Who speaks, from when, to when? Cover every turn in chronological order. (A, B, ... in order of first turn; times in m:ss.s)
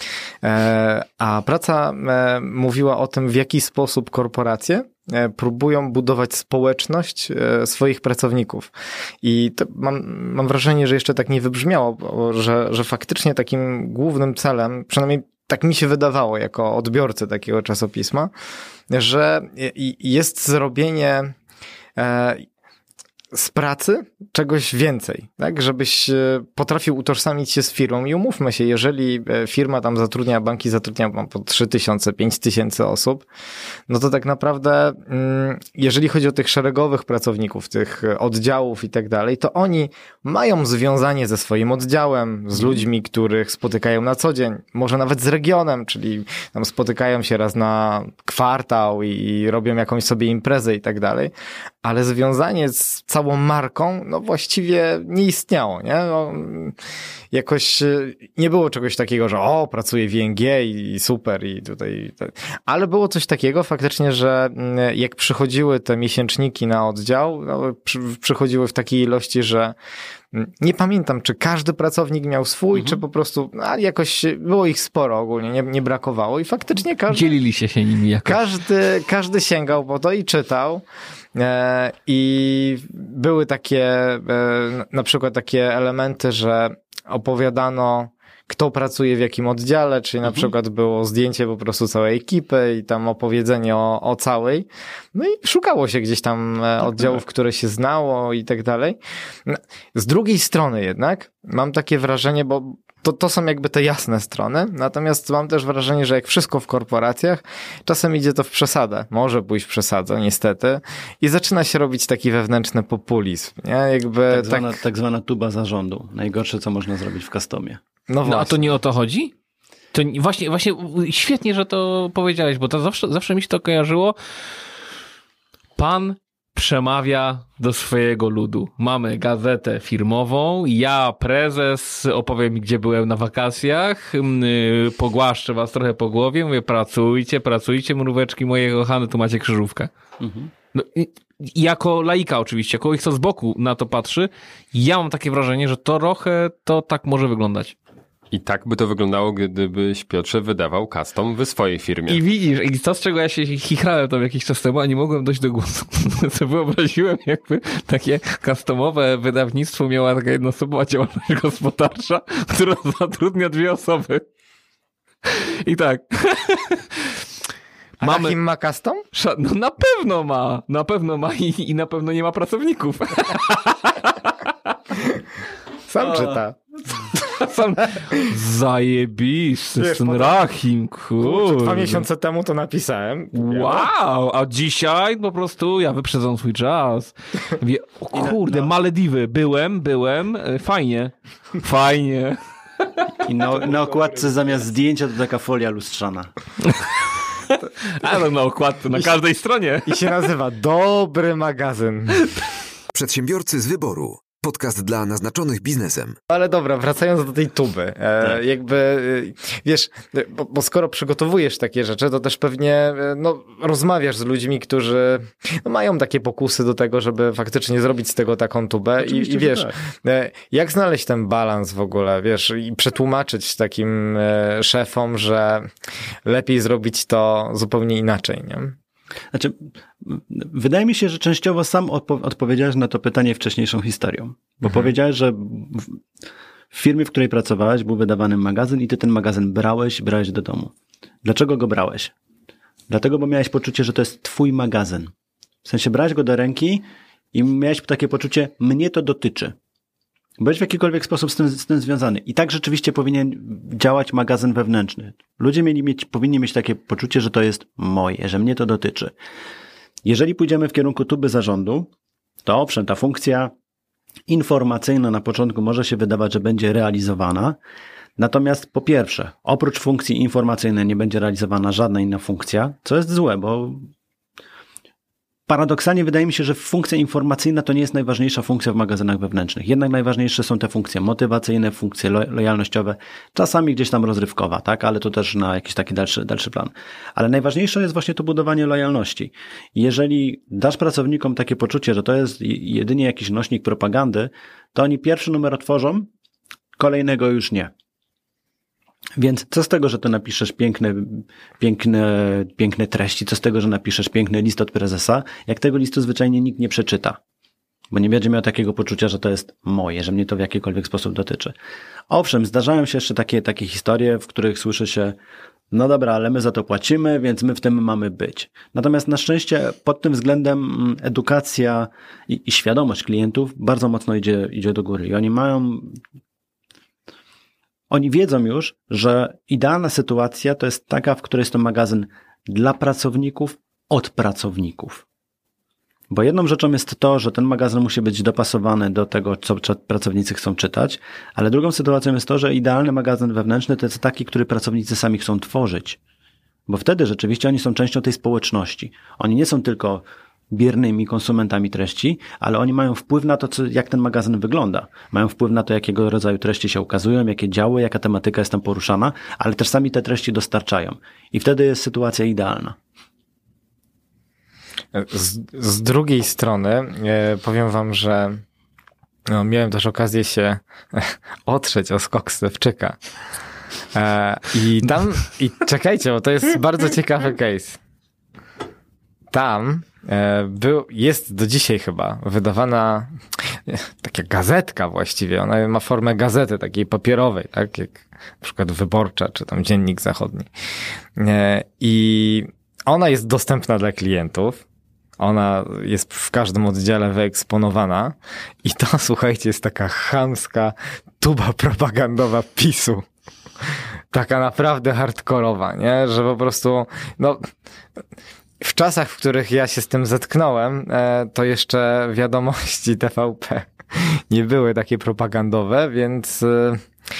0:00.4-0:18.3 A
0:18.9-0:21.3 A
0:22.0-0:22.4 A
0:23.3-0:33.2 A
0:33.9-0:56.8 A
0:57.3-1:09.8 A
1:10.3-1:17.3 A
1:17.1-1:18.4 B
1:18.2-1:54.8 A
1:54.3-1:57.8 C
1:58.1-1:58.8 A
1:58.2-1:59.3 B
1:59.9-2:04.2 B
2:05.8-2:19.9 B
2:20.2-2:20.5 C
2:20.7-2:27.7 B
2:28.3-2:32.2 D
2:32.1-2:44.2 B
2:45.3-2:47.1 B
2:48.0-2:49.0 A
2:48.0-2:48.4 B
2:49.1-2:54.3 B
2:55.9-2:56.6 A
2:56.0-2:56.4 B
2:57.2-3:02.0 B
2:59.8-3:00.5 A
3:01.2-3:03.9 A
3:03.3-3:13.0 B
3:08.1-3:08.7 C
3:13.2-3:16.3 C
3:16.6-3:16.9 B
3:17.5-3:20.0 B
3:19.8-3:22.2 A
3:22.9-3:26.2 E
3:26.3-3:45.7 A
3:39.0-3:39.8 C
3:46.2-3:48.8 A
3:49.3-3:56.0 C
3:56.7-4:00.7 C
4:01.2-4:02.1 C
4:02.9-4:05.1 C
4:05.6-4:09.5 C
4:10.4-4:19.1 C
4:20.0-4:21.9 C
4:22.4-4:23.5 C
4:24.3-4:27.6 C
4:28.2-4:33.9 C
4:35.5-4:56.1 C
4:56.8-4:57.7 C
4:59.2-5:07.2 C
5:07.9-5:11.5 C
5:12.1-5:15.2 C
5:15.7-5:26.0 C
5:27.9-5:35.0 C
5:36.1-5:46.0 C
5:46.7-6:02.8 C
6:04.9-6:08.4 A
6:09.3-6:13.0 A
6:13.9-6:17.8 A
6:19.3-6:30.5 A
6:31.2-6:34.6 A
6:35.2-6:43.0 A
6:44.1-6:47.5 A
6:48.6-6:56.9 A